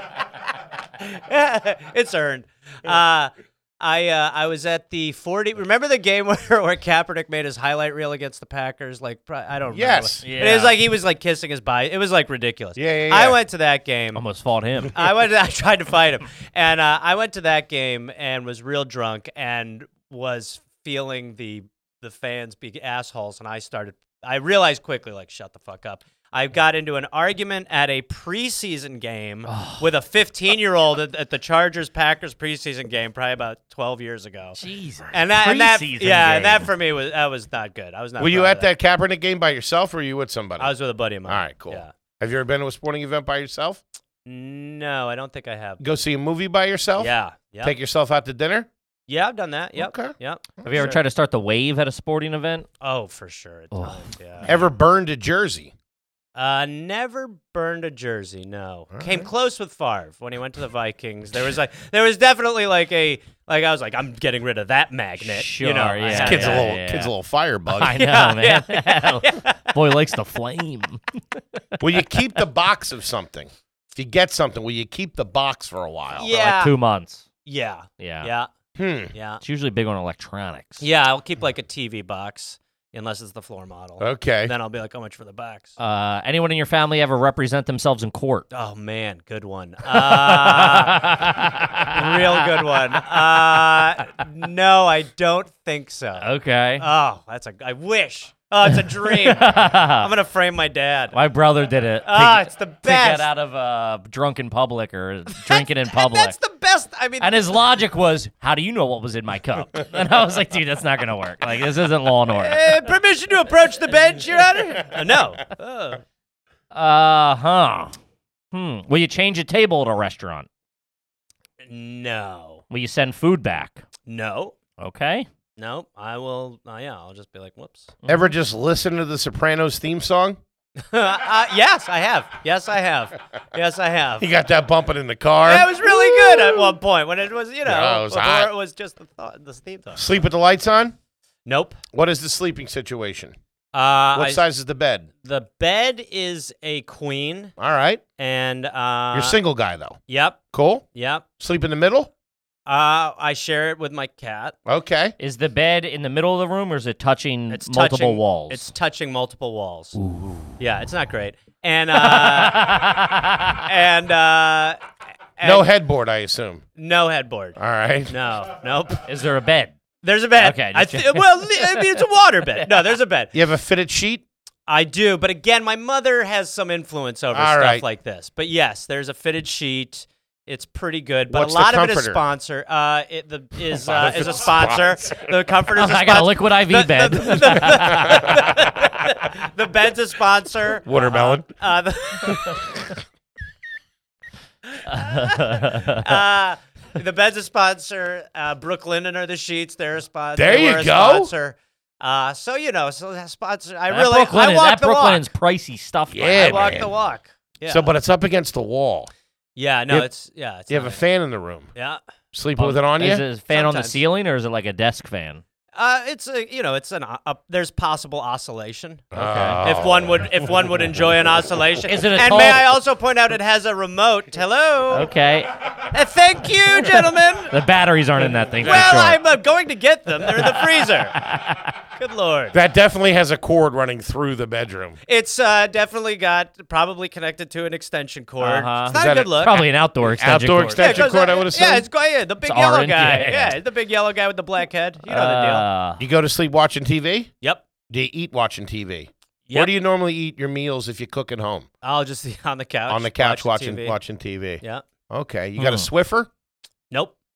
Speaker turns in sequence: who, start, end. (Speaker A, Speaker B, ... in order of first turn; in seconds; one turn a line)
Speaker A: 1.0-14.3
Speaker B: 9.7-10.2
Speaker C: 10.2-10.8
Speaker B: 12.8-13.4
Speaker C: 14.2-14.9
Speaker A: 14.9-34.6
Speaker C: 29.5-29.9
Speaker C: 34.6-36.7
Speaker A: 35.1-38.7
Speaker B: 38.2-40.7
Speaker A: 40.6-41.9
Speaker B: 41.3-43.8
Speaker A: 44.3-45.8
Speaker B: 45.8-48.7
Speaker A: 47.0-47.7
Speaker A: 49.1-50.9
Speaker B: 49.8-51.0
Speaker C: 50.6-52.7
Speaker A: 52.8-54.5
Speaker C: 53.7-54.6
Speaker B: 54.5-55.7
Speaker A: 56.4-66.7
Speaker B: 58.9-59.3
Speaker C: 65.2-67.1
Speaker B: 66.1-68.0
Speaker C: 67.7-71.6
Speaker A: 67.9-69.8
Speaker B: 71.8-76.3
Speaker A: 76.2-76.8
Speaker C: 76.3-77.2
Speaker A: 77.5-78.5
Speaker C: 78.0-78.3
Speaker B: 78.8-79.1
Speaker A: 79.1-79.4
Speaker C: 79.4-80.8
Speaker A: 80.8-85.7
Speaker B: 84.0-84.5
Speaker C: 85.8-88.5
Speaker A: 88.5-91.2
Speaker C: 89.9-92.7
Speaker A: 91.8-101.2
Speaker C: 96.2-96.9
Speaker C: 98.7-100.1
Speaker C: 101.1-106.4
Speaker A: 102.0-103.3
Speaker A: 105.3-107.4
Speaker C: 107.2-112.6
Speaker A: 112.3-116.0
Speaker C: 116.7-118.0
Speaker C: 118.5-120.5
Speaker A: 121.6-122.6
Speaker C: 122.7-123.8
Speaker A: 124.1-124.5
Speaker C: 124.8-125.3
Speaker A: 125.6-127.9
Speaker C: 128.1-128.3
Speaker B: 128.1-130.4
Speaker A: 130.9-134.3
Speaker B: 134.2-136.8
Speaker A: 135.5-140.1
Speaker B: 137.7-138.5
Speaker B: 139.9-140.9
Speaker A: 141.5-141.8
Speaker B: 141.9-143.3
Speaker A: 143.7-144.4
Speaker B: 144.1-145.1
Speaker A: 145.2-147.6
Speaker B: 147.6-148.0
Speaker A: 148.2-149.4
Speaker B: 149.1-150.0
Speaker A: 150.1-151.2
Speaker B: 150.5-150.8
Speaker B: 151.4-152.1
Speaker A: 152.7-154.6
Speaker B: 154.7-155.1
Speaker C: 155.2-158.7
Speaker A: 157.5-160.0
Speaker C: 160.0-160.5
Speaker A: 160.6-163.0
Speaker C: 161.9-163.7
Speaker A: 163.6-164.8
Speaker A: 165.4-165.7
Speaker B: 165.4-166.6
Speaker A: 166.8-167.6
Speaker B: 167.6-168.2
Speaker A: 168.1-169.1
Speaker C: 169.1-169.8
Speaker A: 170.0-173.3
Speaker C: 170.4-172.0
Speaker B: 173.3-174.2
Speaker A: 174.7-192.7
Speaker B: 177.3-177.8
Speaker B: 181.3-182.2
Speaker B: 183.7-185.3
Speaker C: 185.8-188.4
Speaker B: 190.8-191.5
Speaker A: 194.8-205.3
Speaker C: 194.9-196.1
Speaker B: 200.4-201.3
Speaker C: 203.9-206.9
Speaker B: 206.1-206.9
Speaker A: 206.3-207.9
Speaker B: 207.7-209.1
Speaker A: 209.6-211.0
Speaker B: 210.7-211.7
Speaker B: 212.3-213.2
Speaker C: 212.6-215.4
Speaker A: 213.5-214.0
Speaker A: 215.8-225.1
Speaker B: 219.1-220.5
Speaker C: 219.2-219.6
Speaker C: 221.9-222.8
Speaker C: 224.9-225.5
Speaker A: 225.8-227.6
Speaker C: 226.8-229.2
Speaker A: 228.5-231.2
Speaker C: 230.3-231.7
Speaker A: 232.0-232.6
Speaker B: 232.5-235.0
Speaker A: 235.1-239.7
Speaker C: 238.4-241.1
Speaker B: 238.9-241.9
Speaker A: 240.6-245.7
Speaker C: 242.4-243.6
Speaker C: 245.1-246.0
Speaker B: 246.0-247.3
Speaker B: 247.9-251.7
Speaker A: 251.8-254.0
Speaker B: 252.9-256.3
Speaker C: 255.6-255.9